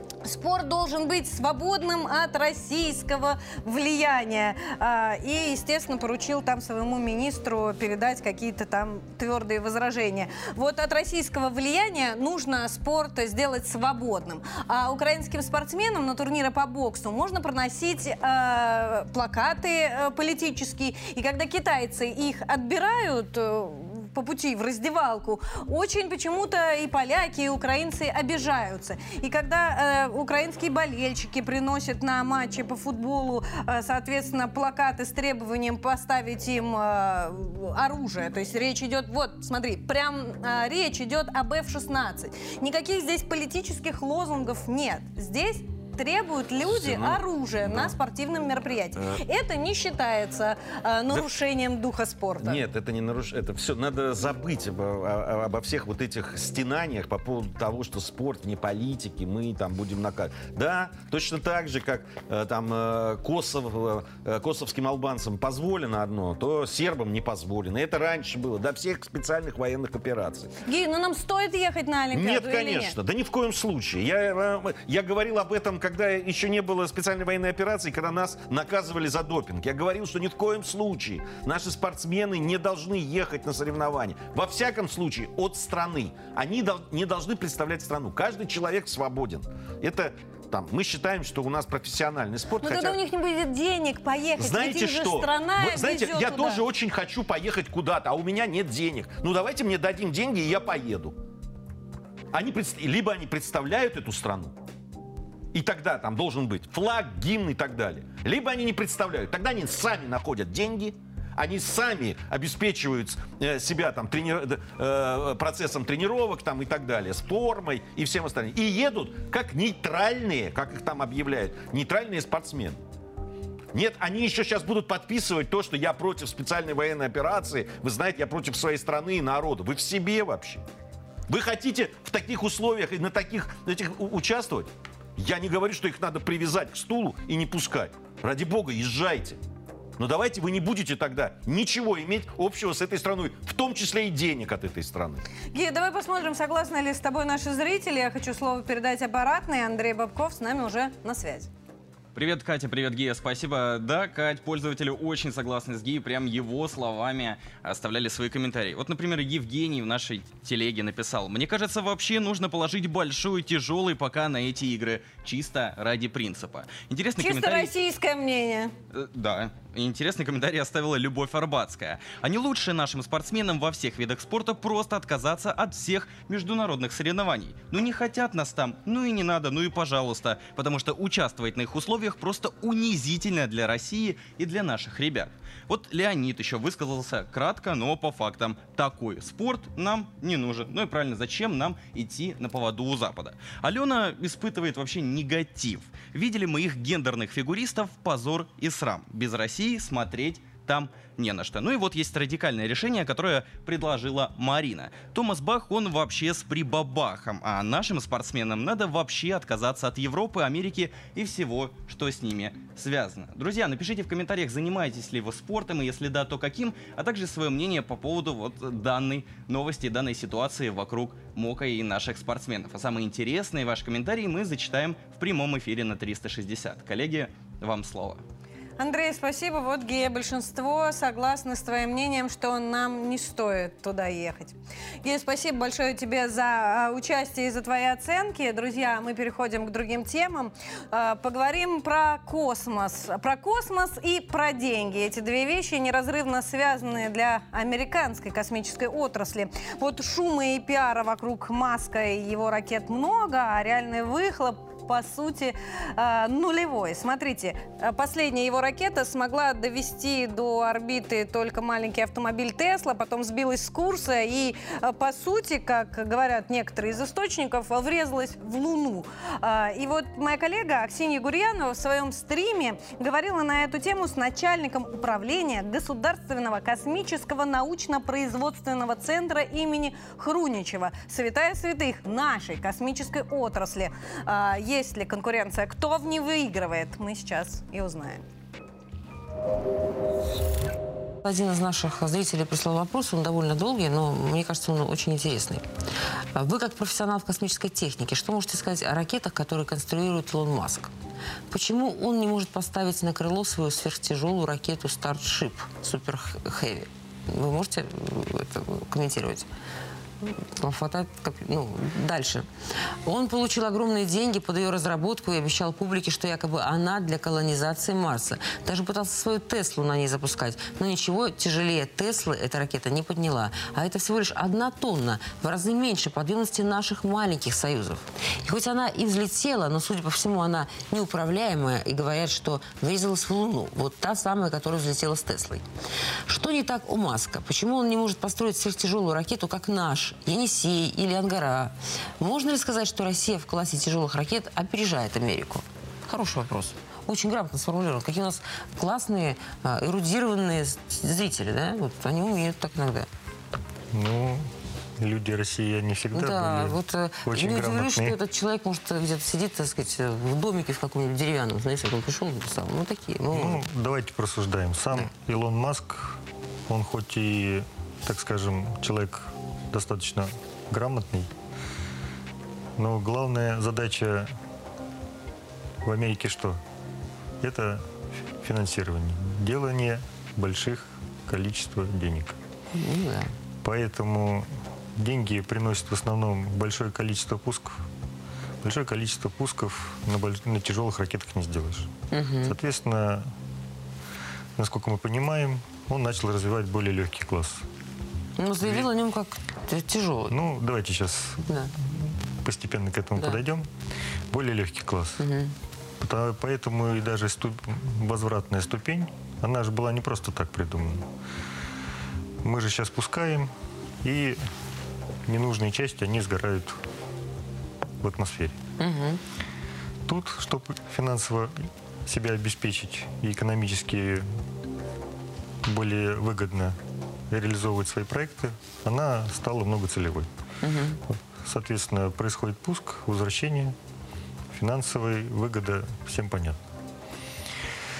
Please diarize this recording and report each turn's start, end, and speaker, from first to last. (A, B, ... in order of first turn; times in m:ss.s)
0:00.2-0:52.6 A
0:46.6-0:47.9 B
0:52.4-1:10.5 B
1:10.6-1:12.9 A
1:12.1-1:33.0 B
1:32.6-1:36.6 A
1:34.4-1:41.2 B
1:42.3-1:44.5 B
1:45.5-2:02.8 B
2:03.7-2:10.6 B
2:11.3-2:19.4 B
2:20.0-2:25.2 B
2:25.5-2:31.5 A
2:32.1-2:47.7 C
2:47.2-2:48.7 A
2:48.9-3:48.2 C
3:48.8-4:48.2 A
4:51.2-4:55.6 D
4:56.3-5:00.9 D
5:01.5-5:09.5 D
5:10.6-5:12.4 D
5:13.0-5:35.6 D
5:36.3-5:53.1 D
5:53.9-5:58.2 E
5:56.1-6:03.6 D
6:03.3-6:11.3 E
6:12.8-6:14.3 E
6:15.8-6:16.6 E
6:17.4-6:17.8 E
6:18.4-6:22.4 E
6:22.7-6:23.3 D
6:23.6-6:27.8 E
6:28.6-6:31.9 E
6:32.1-6:32.5 D
6:32.4-6:33.3 E
6:34.6-6:37.6 E
6:38.4-6:40.3 D
6:38.6-6:38.9 E
6:40.3-6:41.4 E
6:42.4-6:43.7 E
6:44.3-6:45.2 E
6:45.2-6:45.5 D
6:46.0-6:51.0 E
6:52.4-6:53.5 E
6:54.0-6:54.4 E
6:55.3-6:56.8 E
6:58.0-6:58.6 E
6:58.8-6:59.2 D
7:00.0-7:04.3 E
7:05.6-7:06.8 E
7:07.3-7:10.3 E
7:10.6-7:11.0 D
7:11.3-7:13.7 E
7:14.5-7:16.6 E